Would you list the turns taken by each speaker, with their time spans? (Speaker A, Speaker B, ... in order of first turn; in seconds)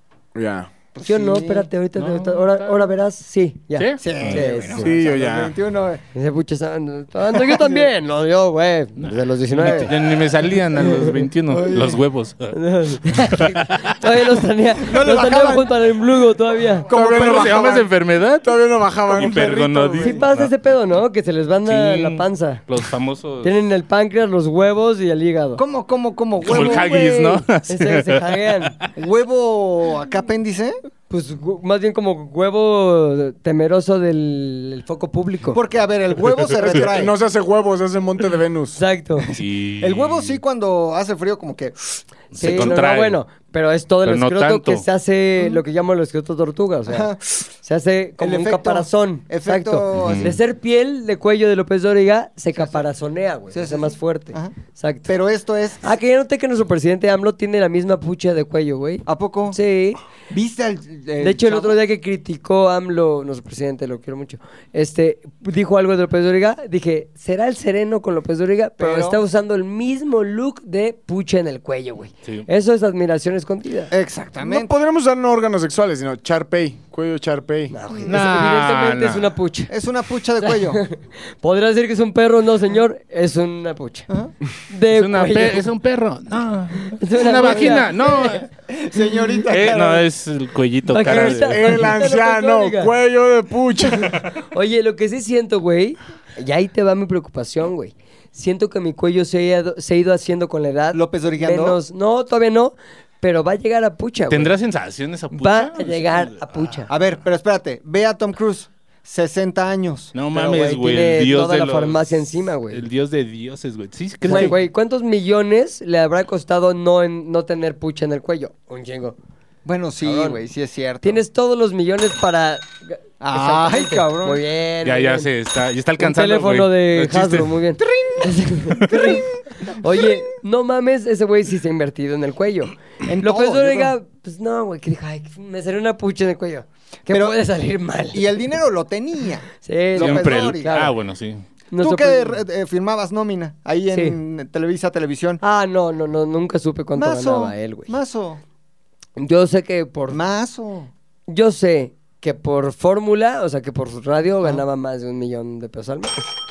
Speaker A: 0.3-0.7, 4.7-5.5, 16.9-17.8, 18.4-20.2, 36.4-38.8, 74.4-77.7, 91.0-94.2
Speaker B: 0.9-1.7, 4.0-6.0, 7.3-7.9, 11.5-12.0, 14.8-15.7, 16.9-17.9, 25.6-27.4, 28.9-30.8, 35.5-37.1, 39.8-42.8, 46.9-47.4, 48.2-50.4, 53.5-54.5, 55.1-55.9, 59.0-59.6, 60.3-61.8, 68.8-69.2, 73.9-74.7, 79.7-80.8, 88.7-90.0, 100.9-101.8, 106.9-110.1, 114.3-114.5, 119.6-121.2, 123.2-124.4, 127.9-128.3, 128.8-130.2, 133.0-133.9, 137.1-137.4, 138.1-140.8, 141.8-145.4, 146.9-148.4, 150.1-150.9
Speaker C: 1.0-4.9, 6.1-9.9, 10.7-11.2, 12.5-16.9, 20.0-22.6, 23.4-25.6, 26.4-28.8, 31.1-35.6, 38.8-39.3, 42.3-47.1, 47.6-55.1, 55.8-60.0, 61.2-73.9, 77.7-79.7, 80.4-84.1, 84.7-85.7, 86.9-88.4, 90.9-92.9, 94.5-104.5, 105.3-106.9, 110.3-112.8, 114.2-119.2, 120.0-120.4, 121.0-125.3, 126.0-138.2, 139.6-140.9, 141.7-142.4, 143.9-144.2, 145.4-147.9, 149.2-150.2, 151.3-156.3
Speaker D: 2.0-2.8, 3.8-4.4, 9.0-12.6, 13.1-14.0, 17.0-18.5, 19.1-20.5, 21.7-23.5, 26.4-28.9, 39.4-40.4, 42.3-43.2, 44.0-44.8, 49.9-50.3, 78.1-79.3, 84.9-88.5, 89.5-91.8, 104.3-106.7, 110.1-112.2, 112.7-114.6, 124.8-127.5, 140.0-141.4